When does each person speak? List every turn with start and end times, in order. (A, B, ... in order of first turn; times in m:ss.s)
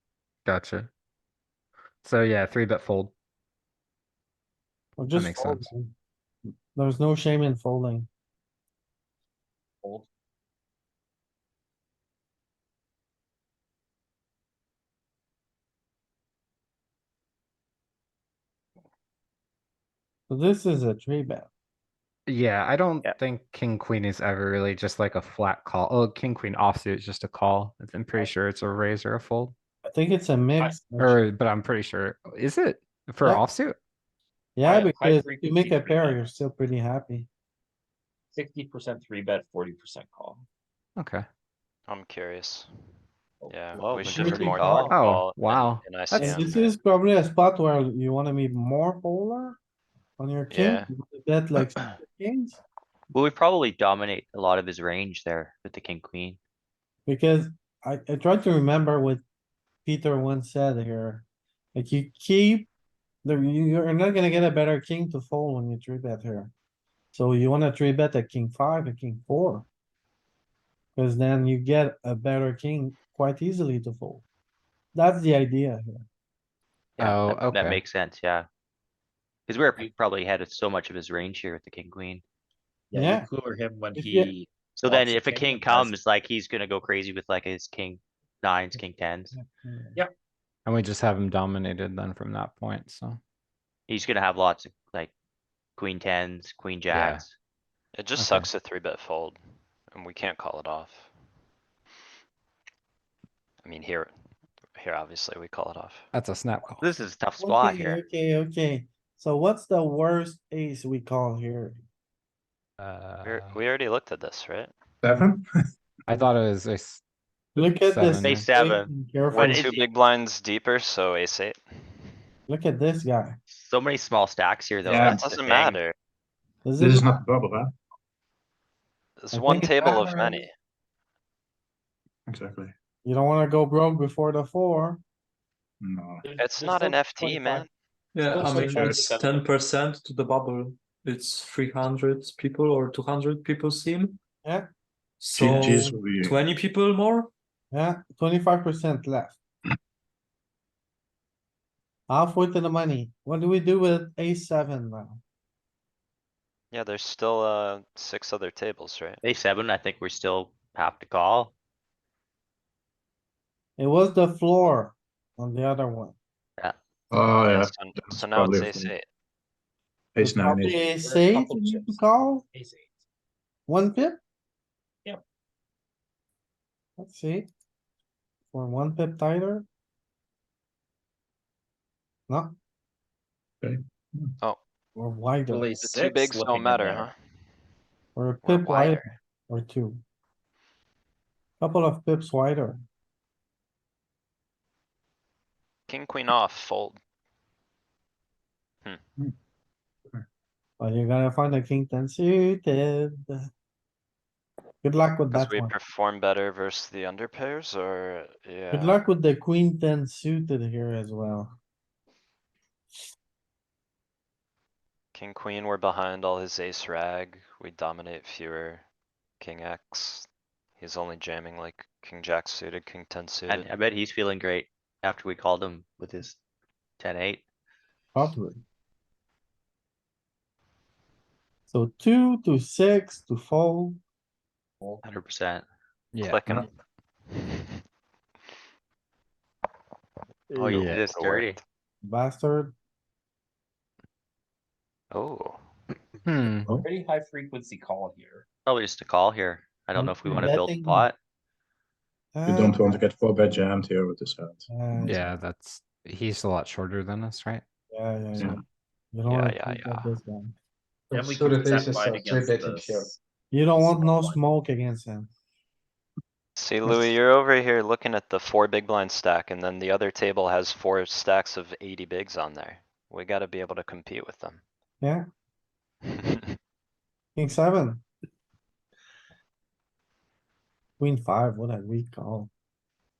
0:00.4-0:00.9 A
0:02.0-0:03.1 A
0:05.0-0:05.9 B
0:05.1-0:05.7 A
0:06.7-0:08.1 B
0:09.8-0:10.1 C
0:20.3-0:21.5 B
0:22.3-0:29.5 A
0:29.8-0:31.2 B
0:31.0-0:33.8 A
0:34.6-0:37.3 B
0:34.6-0:36.3 C
0:38.3-0:40.4 C
0:41.0-0:41.2 A
0:41.9-0:42.7 D
0:43.5-0:46.8 D
0:43.7-0:44.9 E
0:44.1-0:44.6 B
0:44.5-0:44.9 C
0:44.9-0:46.5 A
0:46.1-0:49.6 B
0:50.2-0:52.6 B
0:50.5-0:50.9 D
0:53.1-0:56.4 E
0:57.0-0:59.2 B
0:59.8-1:02.7 B
1:03.2-1:06.5 B
1:07.1-1:09.7 B
1:11.0-1:14.2 B
1:14.9-1:16.0 B
1:17.0-1:18.5 E
1:17.0-1:17.8 A
1:19.5-1:22.2 E
1:22.9-1:25.9 C
1:22.9-1:23.3 B
1:23.9-1:24.3 B
1:24.8-1:29.3 E
1:28.7-1:30.0 B
1:30.6-1:33.2 A
1:33.9-1:35.1 E
1:35.8-1:37.3 E
1:36.9-1:37.2 A
1:37.9-1:39.4 D
1:38.2-1:38.5 A
1:39.9-1:41.1 D
1:43.6-1:44.1 D
1:44.7-1:46.1 D
1:46.1-1:46.8 A
1:46.8-1:48.0 E
1:47.3-1:51.8 B
1:52.8-1:53.6 A
1:53.2-1:54.7 D
1:55.0-1:55.5 F
1:56.1-1:57.0 A
1:57.6-1:58.5 A
1:57.6-1:59.8 B
1:58.2-1:59.9 E
1:59.3-2:02.1 D
2:02.5-2:03.4 B
2:03.5-2:05.8 E
2:04.8-2:05.3 F
2:05.0-2:05.9 D
2:06.6-2:07.2 B
2:06.8-2:07.7 F
2:09.2-2:10.5 D
2:09.3-2:10.4 B
2:12.3-2:12.7 F
2:13.0-2:15.0 B
2:15.8-2:16.2 F
2:16.2-2:17.3 C
2:16.4-2:17.7 D
2:17.3-2:17.6 B
2:18.1-2:24.2 G
2:18.3-2:19.3 C
2:18.3-2:19.0 B
2:18.7-2:19.1 F
2:25.2-2:27.3 G
2:25.4-2:26.4 F
2:25.4-2:26.0 B
2:27.7-2:29.4 B
2:32.1-2:35.2 B
2:36.7-2:39.2 D
2:39.2-2:41.5 E
2:43.8-2:46.2 B
2:47.1-2:48.9 F
2:47.5-2:49.0 D
2:50.1-2:50.8 F
2:50.2-2:52.4 B
2:51.0-2:52.9 C
2:53.7-2:54.2 B
2:57.0-2:57.5 B
2:58.5-2:59.7 B
3:02.3-3:02.6 B
3:03.6-3:04.3 F
3:05.0-3:05.7 B
3:05.5-3:07.1 C
3:05.8-3:07.2 D
3:08.1-3:10.0 B
3:08.4-3:09.1 D
3:11.6-3:12.8 B
3:15.9-3:17.0 D
3:20.8-3:23.5 B
3:24.8-3:25.7 B
3:25.3-3:29.0 D
3:28.7-3:31.6 B
3:35.1-3:38.8 D
3:39.4-3:43.7 D
3:43.5-3:46.4 E
3:47.0-3:47.4 E
3:48.1-3:48.6 B
3:51.7-3:54.0 B
3:55.0-3:55.6 E
3:56.1-3:56.6 A
3:56.2-3:56.7 D
3:57.4-3:57.6 D
4:00.5-4:01.6 E
4:00.6-4:01.0 A
4:00.7-4:01.6 D
4:02.0-4:02.7 B
4:05.1-4:05.6 D
4:06.2-4:06.7 A
4:06.7-4:08.4 C
4:08.6-4:11.2 E
4:09.9-4:11.1 B
4:12.3-4:13.0 B
4:12.4-4:15.2 F
4:14.7-4:15.2 B
4:15.0-4:17.6 A
4:17.9-4:18.6 B
4:19.1-4:20.5 B
4:19.3-4:20.1 D
4:21.1-4:23.1 C
4:21.1-4:23.1 F
4:23.5-4:25.3 B
4:23.8-4:24.4 C
4:26.6-4:34.6 D
4:26.8-4:27.1 B
4:37.4-4:38.0 B
4:41.0-4:42.5 B